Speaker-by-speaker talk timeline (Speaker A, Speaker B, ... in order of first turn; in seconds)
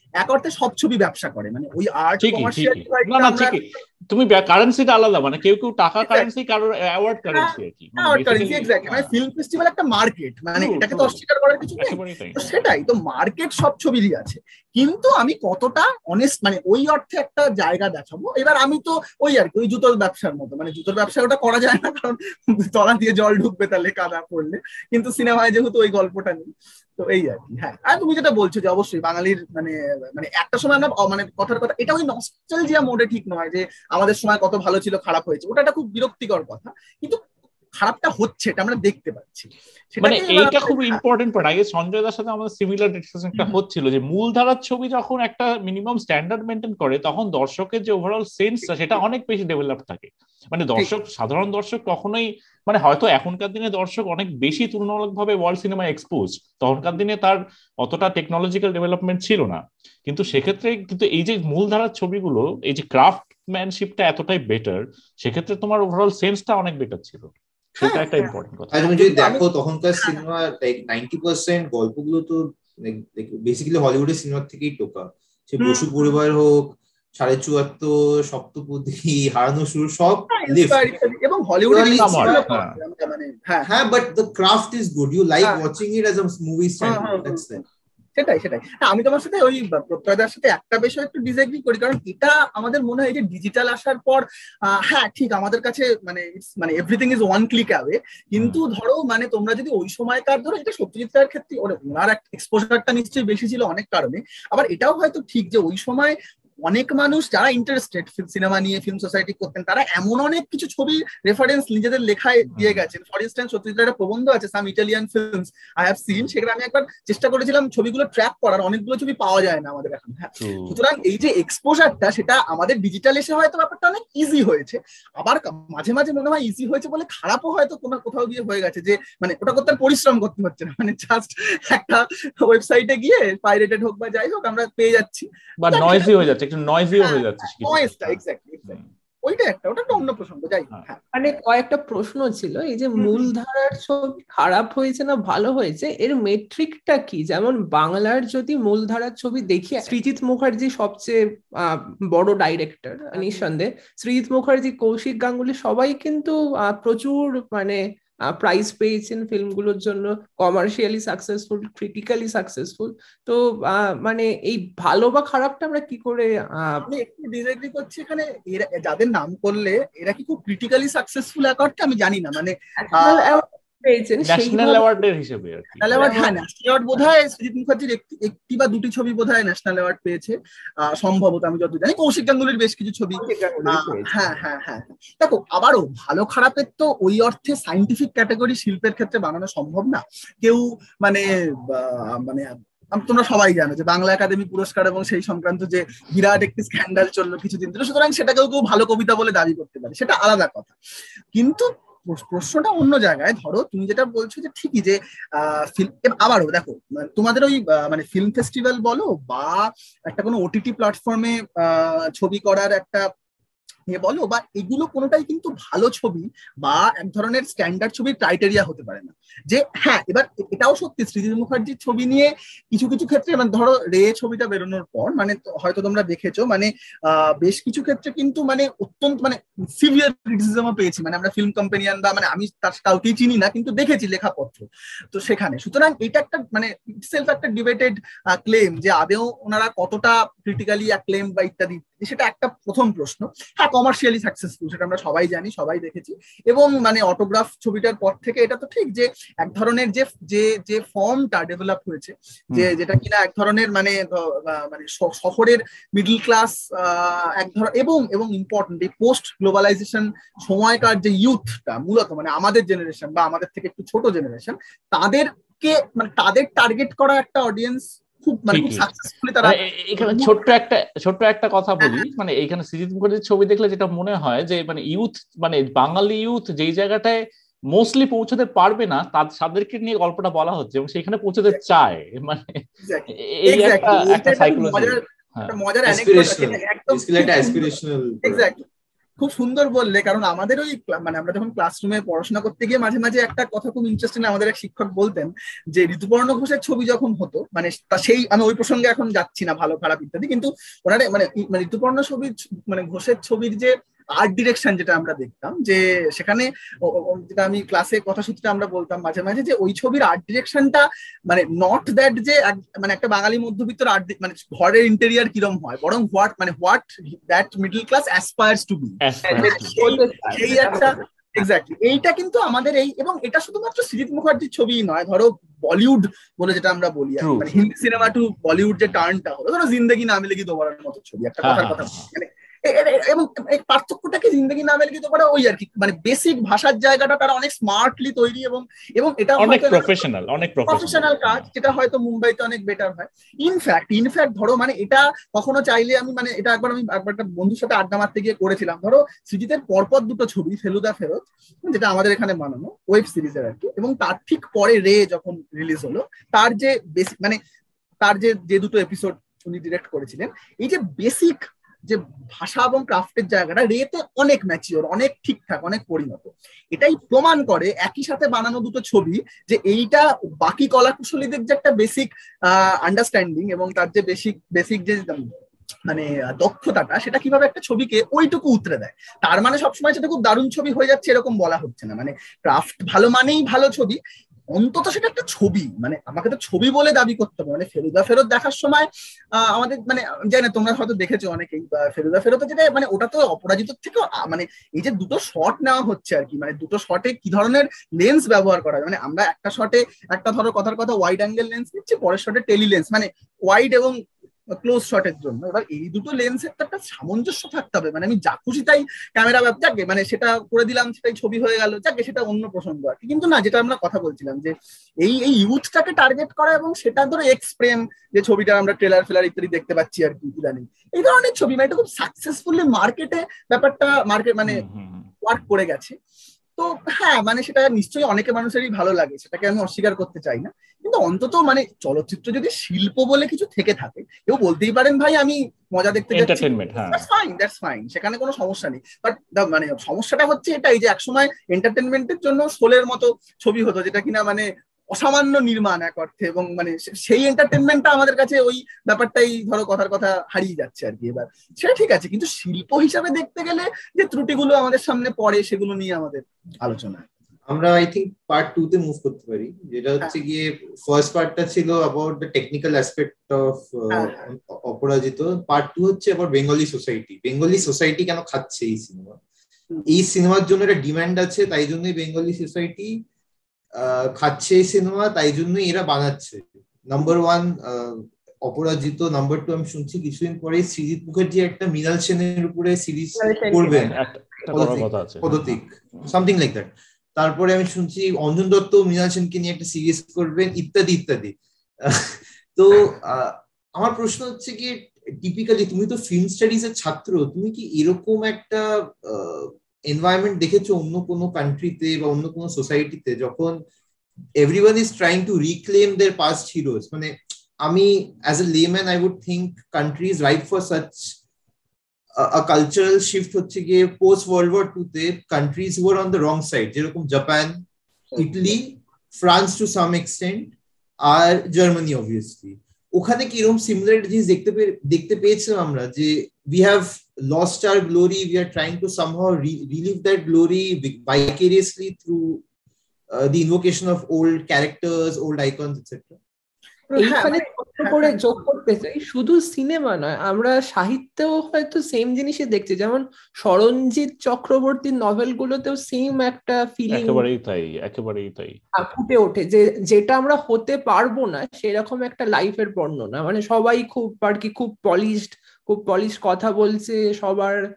Speaker A: 0.2-3.6, 6.0-6.3, 7.3-37.2, 37.8-41.0, 48.6-49.0, 67.8-68.3, 69.0-69.4, 75.6-76.1, 80.3-83.7, 86.8-87.4, 88.2-106.1, 106.7-136.2, 137.0-141.0, 143.0-143.3, 153.2-153.4, 166.8-173.4, 175.8-200.7, 201.3-213.1, 213.9-270.5, 282.8-287.7, 288.2-288.6, 289.2-340.0, 340.7-357.4, 358.0-375.3, 375.9-384.0, 384.5-388.9, 389.4-403.9, 404.6-424.6, 425.2-425.9, 426.6-457.1, 463.9-464.2, 518.1-518.5, 536.9-538.1
Speaker B: 2.2-9.1, 10.6-11.2, 11.8-12.4, 40.0-68.7, 81.9-82.7, 112.5-112.8, 120.4-120.8, 135.6-138.8, 174.3-176.3, 268.5-268.9, 269.4-277.2, 277.7-282.6, 283.2-285.5, 319.0-319.8, 327.2-328.1, 331.4-332.1, 339.4-341.5, 424.4-425.1, 436.1-437.1, 483.7-485.6, 546.9-548.6
Speaker C: 68.7-81.0, 81.7-82.4, 83.6-87.6, 285.9-288.5, 457.5-469.2, 469.9-472.9, 473.8-483.9, 484.5-503.6, 504.4-511.1, 512.2-517.6, 518.1-520.5, 521.0-532.4, 533.1-536.2
Speaker D: 141.1-151.2, 152.1-157.8, 158.3-166.8, 172.8-174.8, 175.9-176.3, 183.2-184.4, 319.2-321.0, 483.2-483.8, 537.0-547.2, 548.8-557.6